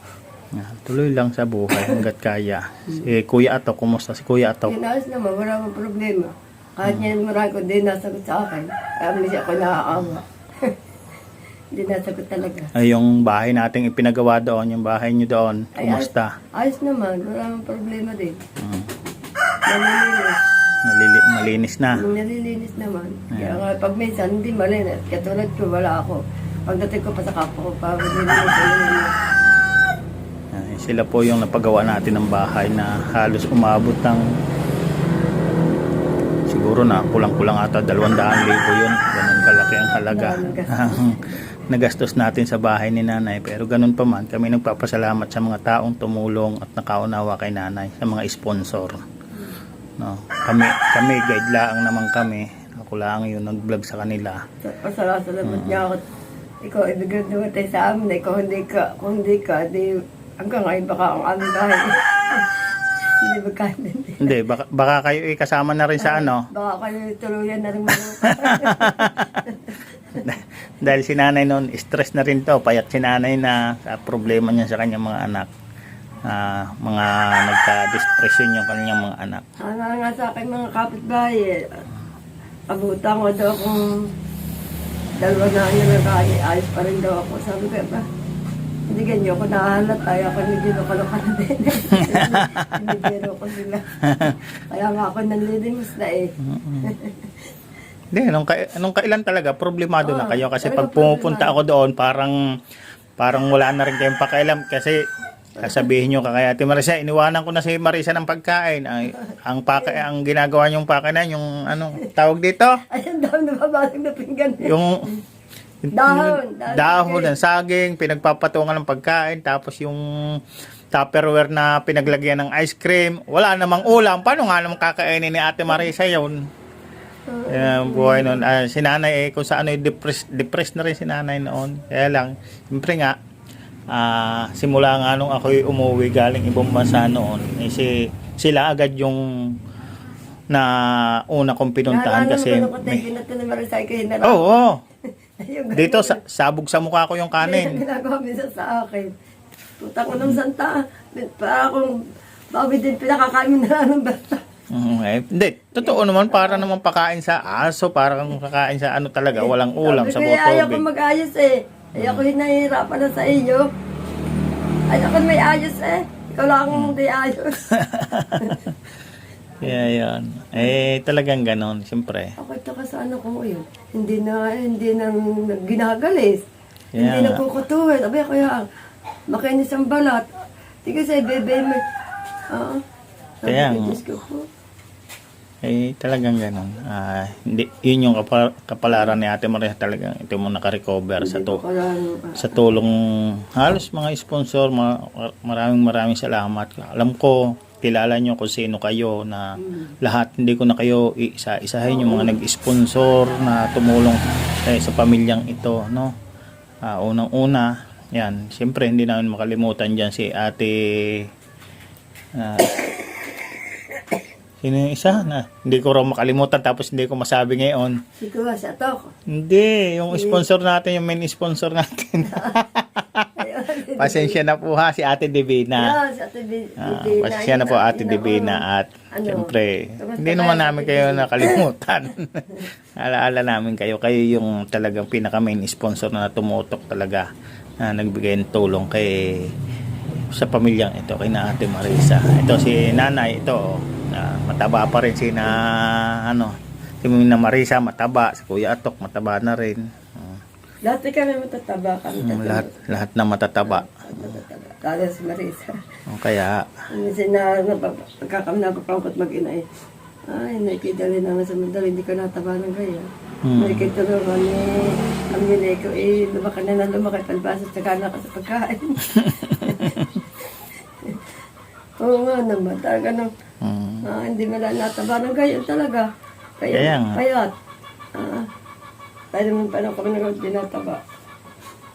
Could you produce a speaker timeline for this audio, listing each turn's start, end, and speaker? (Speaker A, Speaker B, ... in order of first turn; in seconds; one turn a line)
Speaker A: 0.6-4.8
Speaker B: 4.7-10.8
Speaker A: 6.8-7.1
Speaker B: 11.7-12.7
Speaker A: 12.8-16.3
Speaker B: 15.8-18.4
Speaker A: 18.6-18.9
Speaker B: 19.7-20.4
Speaker A: 20.9-22.0
Speaker B: 22.0-29.1
Speaker A: 23.3-23.6
Speaker A: 30.5-34.2
Speaker A: 36.5-49.0
Speaker B: 40.1-41.0
Speaker A: 50.0-54.4
Speaker B: 54.6-56.0
Speaker A: 55.4-55.9
Speaker B: 56.6-64.3
Speaker A: 64.2-66.5
Speaker B: 66.0-70.2
Speaker A: 67.9-69.6
Speaker A: 70.2-75.5
Speaker A: 76.3-79.4
Speaker B: 79.6-81.8
Speaker B: 82.7-84.1
Speaker B: 85.2-88.0
Speaker B: 88.9-93.9
Speaker A: 92.0-92.8
Speaker A: 94.1-94.4
Speaker B: 94.7-96.3
Speaker A: 96.4-97.0
Speaker B: 96.8-97.4
Speaker A: 98.1-102.4
Speaker B: 100.0-101.6
Speaker A: 103.2-105.0
Speaker A: 105.6-112.8
Speaker B: 105.6-105.9
Speaker B: 109.3-110.0
Speaker B: 112.9-115.2
Speaker A: 114.6-115.1
Speaker A: 115.8-120.4
Speaker B: 115.9-117.4
Speaker A: 120.9-126.4
Speaker B: 127.3-128.5
Speaker A: 127.5-133.2
Speaker A: 133.9-139.2
Speaker A: 140.5-143.1
Speaker B: 141.9-144.5
Speaker A: 144.2-144.8
Speaker B: 145.4-146.2
Speaker A: 145.8-147.8
Speaker B: 147.4-149.1
Speaker B: 149.8-151.9
Speaker B: 152.6-154.4
Speaker A: 154.7-160.9
Speaker B: 155.8-156.7
Speaker B: 159.3-163.7
Speaker A: 162.0-162.3
Speaker B: 164.9-167.6
Speaker A: 166.7-167.0
Speaker A: 167.7-168.8
Speaker A: 169.6-172.3
Speaker B: 172.4-176.4
Speaker A: 176.9-177.4
Speaker B: 177.0-178.7
Speaker B: 179.3-180.3
Speaker B: 180.9-181.8
Speaker B: 182.5-182.8
Speaker B: 183.4-184.4
Speaker A: 183.5-184.0
Speaker A: 185.6-191.6
Speaker B: 191.2-192.6
Speaker A: 192.4-206.1
Speaker B: 199.6-199.9
Speaker B: 201.9-202.4
Speaker A: 206.8-211.3
Speaker A: 212.3-212.9
Speaker A: 214.6-218.0
Speaker B: 218.2-219.1
Speaker A: 219.3-223.3
Speaker B: 220.1-220.4
Speaker B: 222.2-222.6
Speaker B: 223.4-224.4
Speaker A: 223.9-226.0
Speaker B: 225.8-228.6
Speaker A: 226.8-237.3
Speaker B: 229.2-231.6
Speaker A: 237.8-239.5
Speaker A: 240.3-250.4
Speaker B: 250.8-252.7
Speaker A: 252.2-254.4
Speaker B: 253.6-255.8
Speaker A: 256.1-256.7
Speaker B: 256.9-259.6
Speaker B: 260.3-270.0
Speaker A: 263.4-263.9
Speaker A: 269.1-270.2
Speaker B: 272.0-273.3
Speaker A: 273.6-274.1
Speaker B: 274.1-276.1
Speaker B: 276.6-277.5
Speaker A: 276.7-277.2
Speaker B: 278.2-278.5
Speaker B: 279.3-281.0